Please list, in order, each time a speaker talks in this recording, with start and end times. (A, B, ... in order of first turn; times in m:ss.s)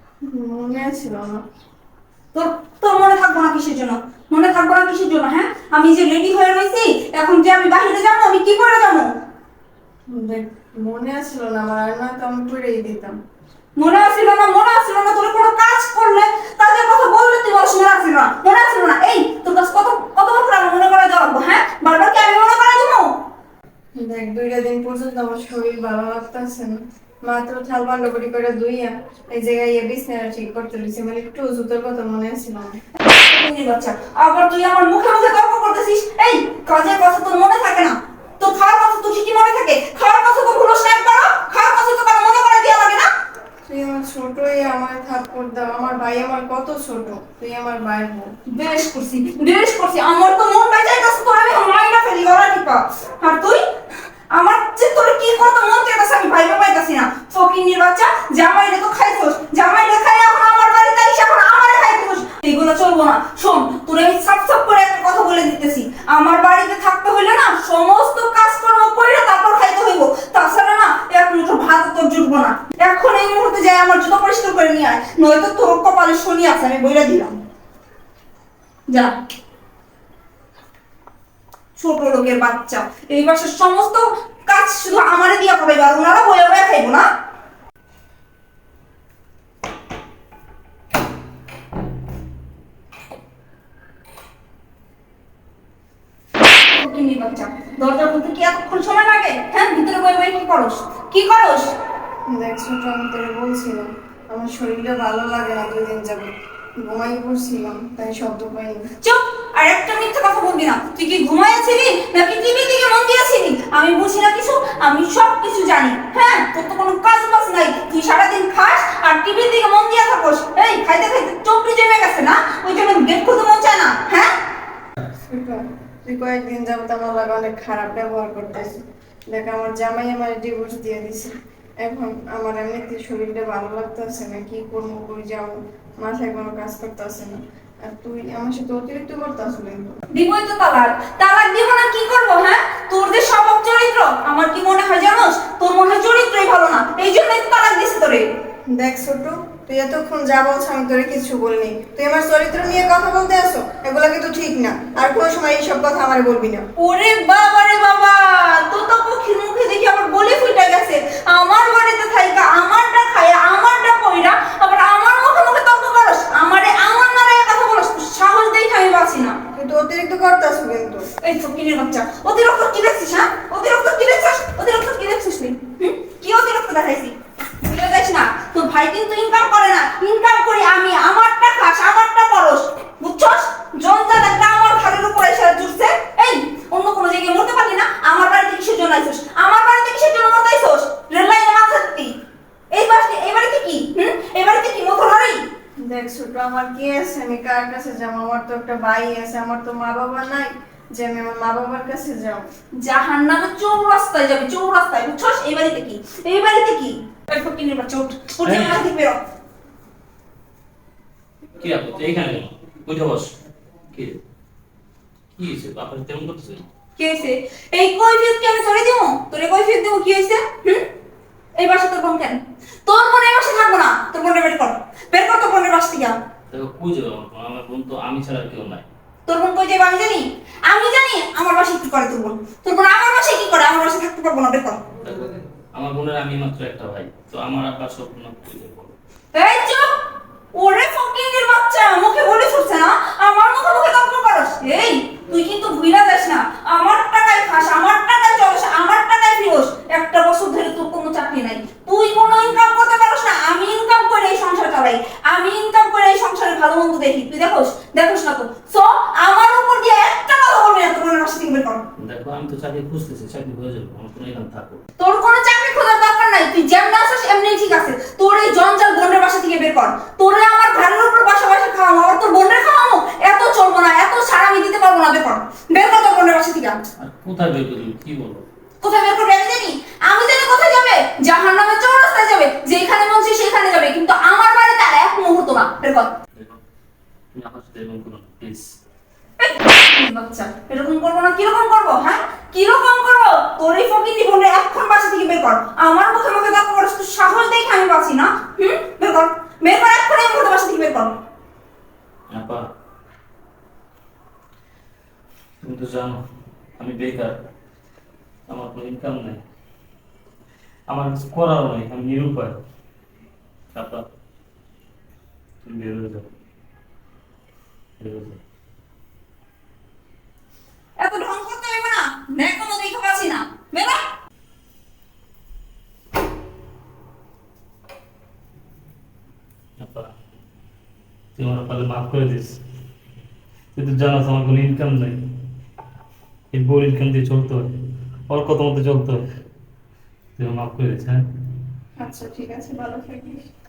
0:00.3-0:01.4 A
0:02.3-0:09.1 B
0:10.1-0:13.2 A
0:13.8-0:23.1 B
0:24.0-0:32.8 A
0:33.0-0:43.1 B
0:43.7-0:48.3 A
0:48.5-0:53.6 B
0:54.3-1:17.3 B
1:18.9-1:19.1 B
1:21.8-1:27.0 B
1:36.6-1:41.7 B
1:42.3-1:46.3 A
1:46.8-1:48.8 A
1:49.0-2:04.3 B
2:05.3-2:20.0 A
2:20.1-2:28.2 B
2:28.7-2:36.6 A
2:36.8-2:49.4 B
2:49.5-2:51.0 A
2:51.2-3:12.1 B
3:12.7-3:15.4 B
3:15.8-3:22.5 A
3:22.8-3:29.2 B
3:28.4-3:28.8 C
3:31.6-3:33.3 C
3:33.9-3:34.2 C
3:35.4-3:36.6 C
3:37.0-3:40.9 B
3:41.6-3:46.1 B
3:46.5-3:48.8 C
3:49.3-3:54.8 B
3:55.0-3:59.0 C
3:59.3-3:59.9 B
4:00.5-4:21.8 B
4:22.0-4:24.8 C
4:25.0-4:36.8 B
4:37.0-4:38.4 C
4:38.8-4:46.1 B
4:47.3-4:48.7 C
4:49.4-5:01.1 B
5:02.3-5:02.6 C
5:05.6-5:06.2 C
5:06.8-5:07.4 C
5:08.5-5:09.4 C
5:10.9-5:12.6 C
5:13.7-5:14.0 C
5:15.6-5:16.2 C
5:18.0-5:18.4 C
5:21.0-5:24.0 B
5:29.8-5:30.1 C
5:31.4-5:32.6 C
5:33.7-5:35.2 C
5:36.5-5:37.7 C
5:38.3-5:39.2 C
5:40.4-5:41.2 C
5:42.0-5:43.4 A